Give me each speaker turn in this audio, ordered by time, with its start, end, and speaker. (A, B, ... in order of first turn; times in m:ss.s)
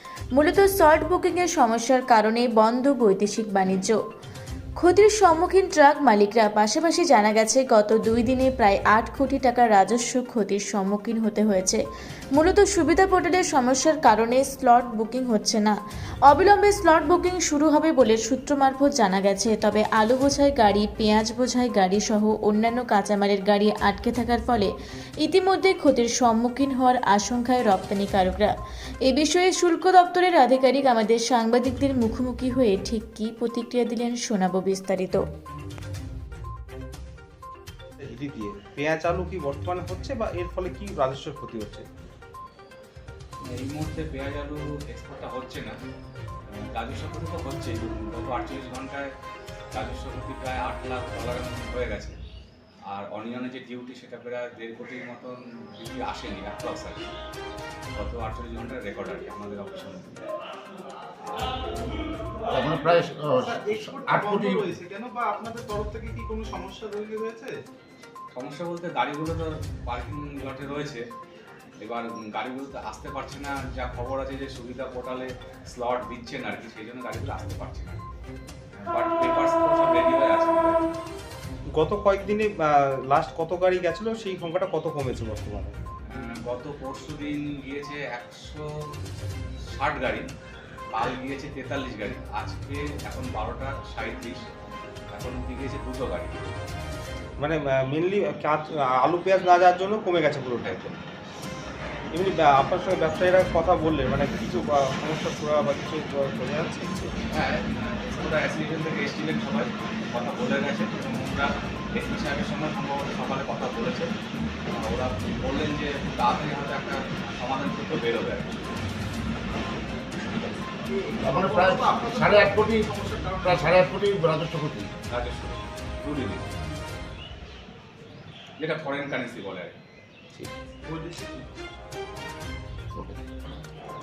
0:00.3-0:04.0 A
0:04.8-0:11.8 A
0:12.3-0:28.5 A
0:29.0-0:35.2 A
0:38.0-0:41.8 B
0:43.5-0:45.7 C
0:46.5-0:49.1 C
0:49.7-0:52.2 C
0:52.9-0:57.1 C
0:58.0-1:00.2 C
1:02.5-1:04.7 D
1:03.4-1:07.5 E
1:08.3-1:11.0 C
1:11.8-1:18.0 C
1:18.7-1:20.8 C
1:21.7-1:25.8 B
1:26.0-1:28.7 C
1:29.7-1:30.3 C
1:30.9-1:34.4 C
1:35.1-1:36.4 C
1:37.4-1:40.9 B
1:40.6-1:41.0 C
1:42.1-1:47.1 B
1:47.3-1:54.1 C
1:54.7-1:58.5 C
2:00.8-2:03.9 E
2:01.2-2:02.9 D
2:03.4-2:04.9 D
2:05.1-2:06.4 C
2:08.6-2:09.7 C
2:10.9-2:11.4 E